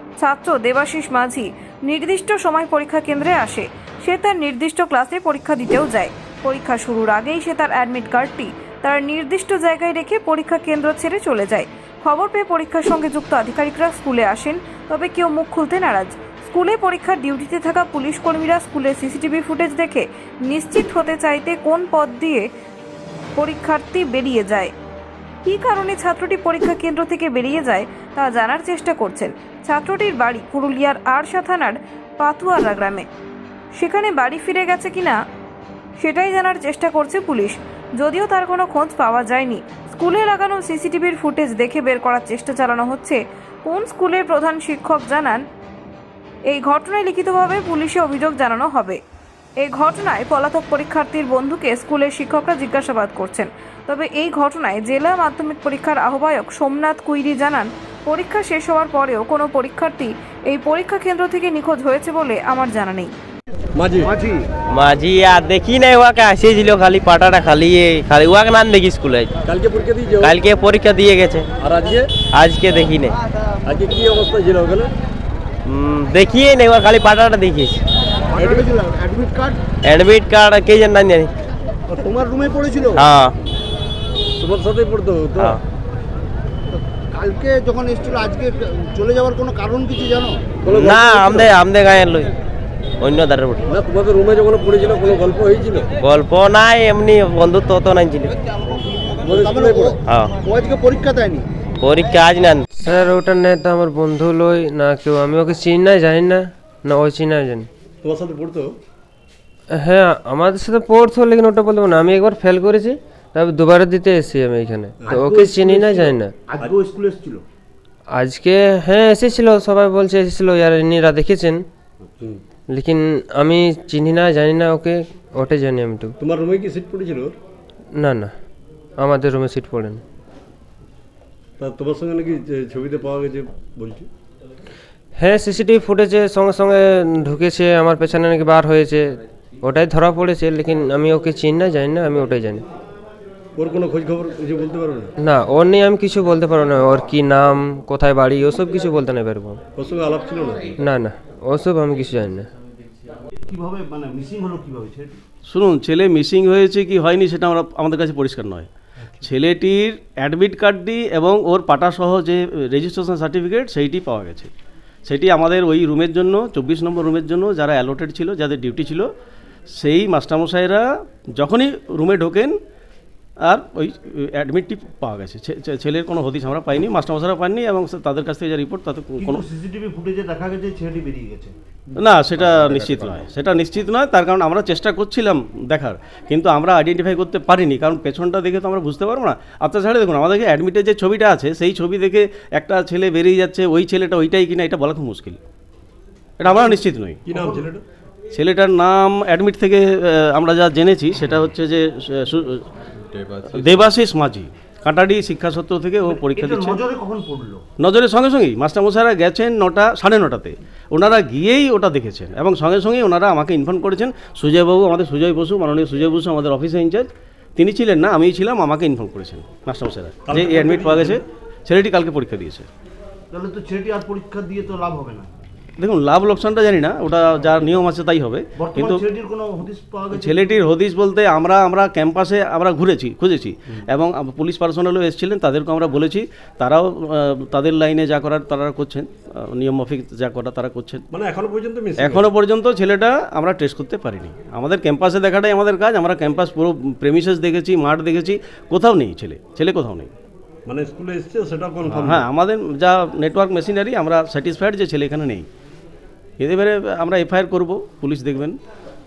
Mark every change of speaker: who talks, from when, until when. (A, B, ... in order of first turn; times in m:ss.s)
0:00.2-0:22.5 A
0:23.4-0:24.7 A
0:25.4-0:33.1 A
0:33.8-0:35.2 A
0:36.0-0:45.4 A
0:46.5-0:49.0 A
0:49.6-1:03.1 A
1:03.8-1:04.1 B
1:04.0-1:04.5 C
1:04.7-1:09.3 D
1:09.5-1:10.4 B
1:10.2-1:11.5 D
1:11.6-1:12.2 B
1:12.2-1:13.2 D
1:13.6-1:14.9 B
1:15.7-1:17.8 D
1:18.3-1:19.6 C
1:18.4-1:18.7 B
1:19.8-1:21.3 D
1:22.0-1:23.1 C
1:23.0-1:23.3 D
1:24.4-1:25.6 B
1:26.7-1:31.1 C
1:30.6-1:31.6 B
1:30.7-1:32.3 D
1:33.0-1:33.7 D
1:33.7-1:35.9 B
1:36.0-1:38.4 D
1:39.2-1:40.0 B
1:39.3-1:41.5 C
1:41.8-1:42.6 D
1:42.8-1:47.7 E
1:48.0-1:48.7 B
1:49.7-1:56.4 E
1:55.1-1:57.4 C
1:58.1-2:01.6 E
2:02.7-2:06.2 E
2:06.2-2:07.4 B
2:08.0-2:08.3 E
2:09.0-2:10.0 E
2:11.6-2:14.1 B
2:15.2-2:22.6 E
2:23.6-2:25.1 B
2:25.2-2:29.6 E
2:29.8-2:30.8 B
2:30.8-2:32.5 E
2:33.5-2:35.2 C
2:35.5-2:38.7 F
2:39.2-2:44.5 F
2:45.1-2:49.1 F
2:49.8-2:50.8 F
2:51.4-2:52.6 F
2:53.5-2:59.4 F
2:59.2-3:03.2 C
3:02.0-3:15.4 F
3:16.4-3:17.5 F
3:16.4-3:17.8 B
3:18.3-3:22.6 F
3:23.1-3:23.9 B
3:23.5-3:26.8 F
3:26.1-3:27.6 C
3:27.8-3:42.7 F
3:40.3-3:41.2 B
3:43.3-3:45.3 C
3:45.8-3:49.0 F
3:48.6-3:50.7 C
3:50.1-4:01.0 F
4:01.1-4:02.2 B
4:02.0-4:10.1 F
4:10.7-4:12.3 B
4:11.9-4:15.5 F
4:16.4-4:18.6 F